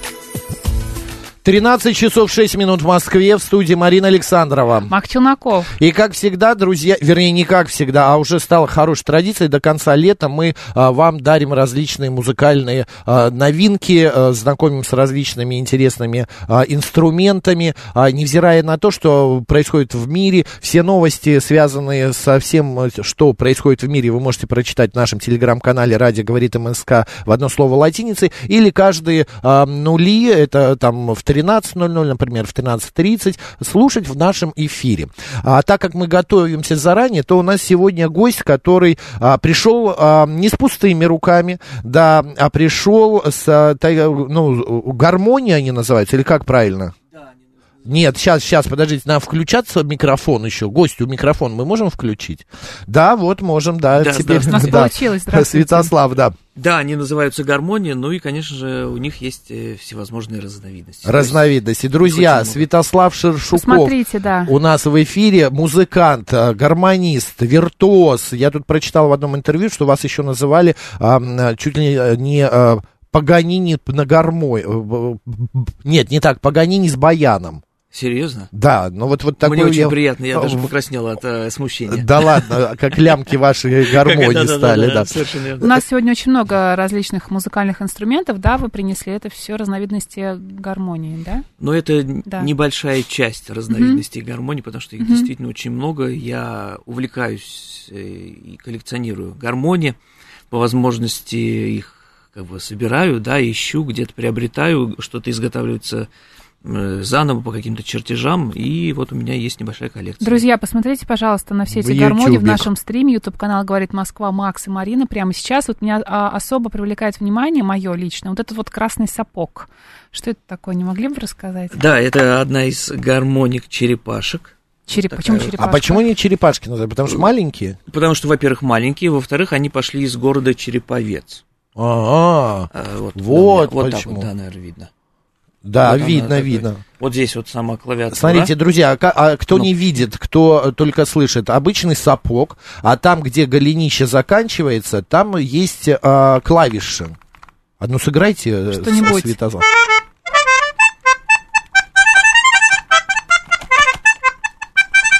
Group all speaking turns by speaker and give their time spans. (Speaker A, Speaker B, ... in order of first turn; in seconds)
Speaker A: 1.4-4.9, 5.7-46.9, 47.8-56.3, 61.0-77.6, 78.5-80.7, 81.9-85.7, 111.7-112.7, 125.6-127.8, 131.8-134.3, 135.6-136.8, 138.1-147.2, 147.8-149.6
Speaker B: 4.9-5.7, 54.4-55.9, 63.5-64.5, 85.6-91.5, 93.7-94.0, 95.0-95.3, 110.2-121.8, 124.9-126.0, 148.7-149.3
Speaker C: 53.9-54.9, 56.5-61.5, 62.0-62.6, 77.9-78.5, 79.4-82.5, 83.9-85.7, 91.6-100.0, 100.5-106.1, 106.6-110.4, 121.7-124.5, 125.1-125.6, 127.9-131.4, 132.7-134.9, 135.8-138.5